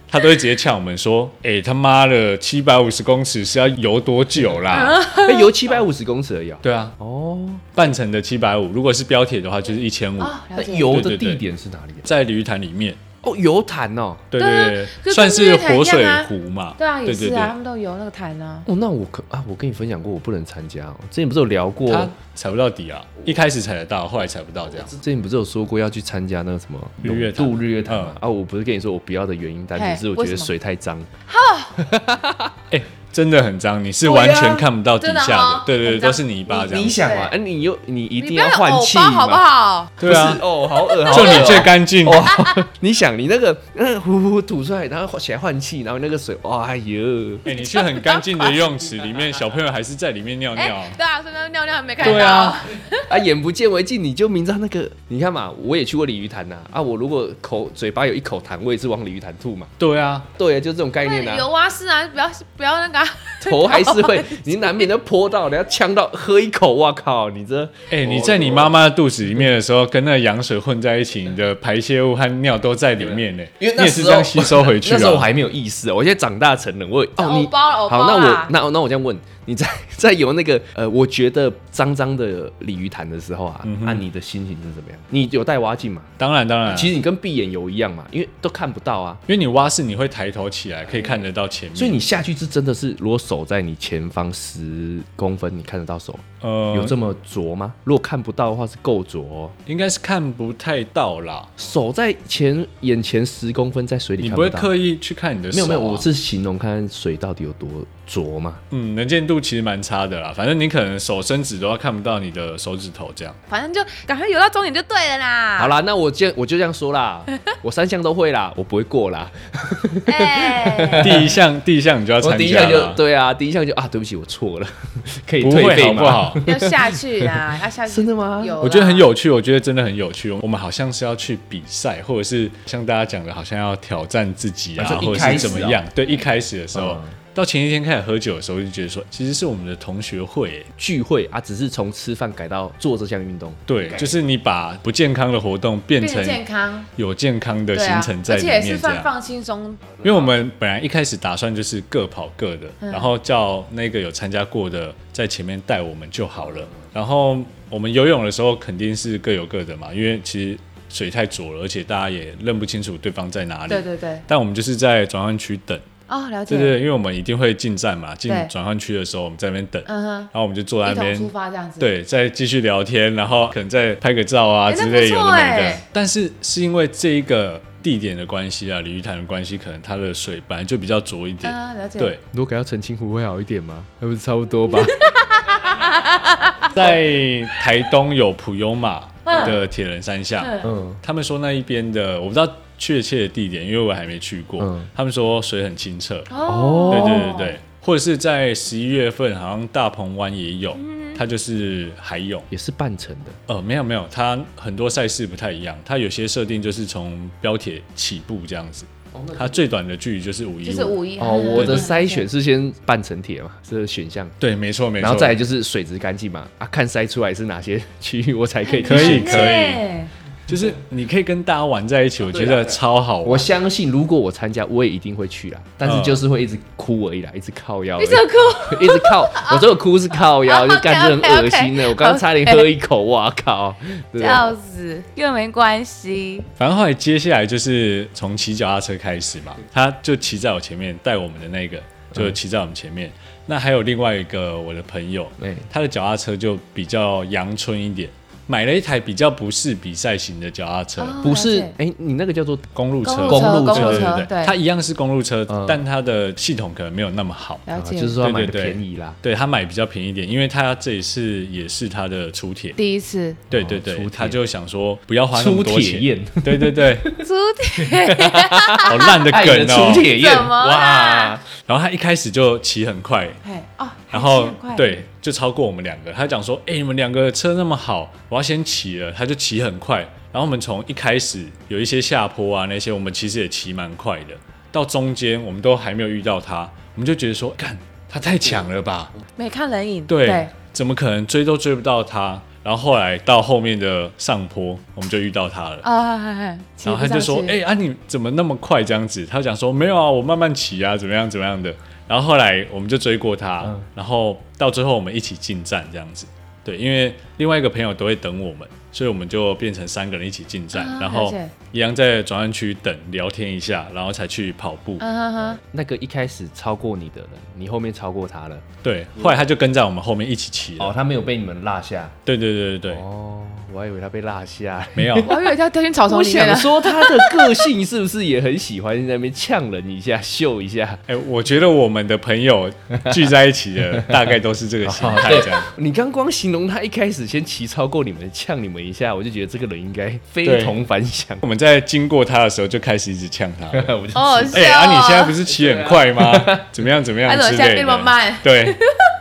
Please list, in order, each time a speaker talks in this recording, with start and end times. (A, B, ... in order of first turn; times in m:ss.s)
0:00.1-0:05.0 A
0:04.7-0:05.5 B
0:05.2-0:07.7 C
0:06.6-0:06.9 A
0:07.7-0:10.3 A
0:10.2-0:11.0 B
0:10.5-0:12.1 C
0:10.9-0:11.4 A
0:12.0-0:13.0 A
0:13.2-0:14.3 C
0:14.3-0:17.5 A
0:14.4-0:18.6 B
0:18.6-0:22.1 C
0:21.9-0:24.9 A
0:24.7-0:31.1 C
0:27.0-0:28.2 A
0:29.7-0:30.5 B
0:31.3-0:31.8 B
0:31.8-0:32.5 C
0:32.7-0:37.0 A
0:34.0-0:34.6 C
0:34.1-0:37.3 B
0:36.6-0:39.4 C
0:38.2-0:40.3 B
0:40.0-0:40.4 A
0:40.0-0:47.4 C
0:40.8-0:41.6 B
0:41.0-0:42.3 A
0:42.3-0:42.6 B
0:47.4-0:51.0 A
0:47.5-0:48.8 B
0:50.6-0:53.2 B
0:52.0-0:52.6 A
0:52.0-0:59.7 C
0:59.8-1:00.3 A
1:00.3-1:01.5 C
1:01.0-1:04.9 B
1:03.4-1:08.7 C
1:07.9-1:15.3 A
1:13.0-1:26.1 C
1:17.2-1:18.5 B
1:23.6-1:24.0 A
1:26.2-1:26.9 A
1:26.7-1:29.2 C
1:29.3-1:32.0 A
1:30.9-1:31.2 C
1:31.7-1:39.6 C
1:36.4-1:37.0 A
1:39.6-1:41.5 A
1:41.6-1:44.7 C
1:44.2-1:46.0 A
1:45.5-1:48.6 C
1:48.7-1:53.4 A
1:53.5-1:55.7 B
1:55.6-2:01.3 C
2:00.1-2:01.2 B
2:01.0-2:03.0 A
2:02.2-2:08.6 C
2:05.4-2:06.4 A
2:06.4-2:09.1 B
2:08.6-2:20.7 A
2:14.8-2:15.8 C
2:16.7-2:17.2 C
2:20.8-2:24.1 C
2:23.7-2:26.4 A
2:26.0-2:26.9 B
2:26.9-2:29.1 A
2:27.7-2:30.0 B
2:30.0-2:45.9 A
2:32.8-2:33.1 B
2:43.7-2:44.2 B
2:46.1-2:46.8 B
2:46.5-3:02.2 A
2:49.8-2:50.3 B
2:50.8-2:51.9 B
2:54.7-2:55.8 B
3:01.4-3:02.2 B
3:02.3-3:05.1 C
3:04.7-3:06.8 B
3:06.7-3:16.3 A
3:09.2-3:09.6 B
3:10.4-3:10.7 B
3:10.6-3:11.0 C
3:14.6-3:14.9 C
3:16.3-3:17.6 B
3:16.4-3:17.3 C
3:16.9-3:22.5 A
3:20.8-3:21.2 B
3:22.5-3:23.4 C
3:23.5-3:31.0 A
3:29.1-3:29.6 C
3:30.6-3:32.3 B
3:31.2-3:34.4 C
3:31.5-3:31.9 A
3:34.4-3:35.4 A
3:35.0-3:39.6 C
3:38.6-3:40.1 B
3:38.8-3:39.8 A
3:40.5-3:43.5 A
3:42.2-3:54.5 C
3:45.8-3:46.2 A
3:48.0-3:52.7 B
3:54.2-3:56.5 B
3:56.6-4:11.2 A
4:05.4-4:05.7 C
4:11.0-4:11.7 B
4:11.2-4:12.7 C
4:12.7-4:17.6 A
4:13.0-4:14.5 B
4:13.2-4:14.2 C
4:15.5-4:15.8 C
4:17.6-4:18.2 B
4:17.7-4:19.2 C
4:18.2-4:22.8 A
4:22.8-4:23.4 B
4:23.5-4:27.0 A
4:23.5-4:24.4 C
4:25.3-4:27.2 C
4:27.2-4:29.2 B
4:27.8-4:31.4 C
4:28.8-4:30.1 A
4:30.0-4:31.4 B
4:31.6-4:33.4 A
4:33.4-4:35.0 B
4:34.1-4:49.1 A
4:49.4-4:50.5 B
4:50.1-4:55.8 A
4:55.8-4:57.5 B
4:56.8-5:15.0 A
5:10.7-5:11.5 B
5:15.0-5:15.6 B
5:15.6-5:18.6 C
5:18.8-5:21.0 A
5:20.8-5:22.1 C
5:22.2-5:23.0 A
5:22.9-5:25.5 C
5:24.9-5:25.4 A
5:25.2-5:27.7 B
5:26.1-5:31.0 C
5:31.1-5:35.7 A
5:34.8-5:41.4 C
5:40.4-5:40.8 A
5:41.4-5:43.9 A
5:43.7-5:44.6 C
5:44.1-5:45.4 B
5:44.5-5:48.8 A
5:45.4-5:46.8 C
5:47.2-5:49.1 B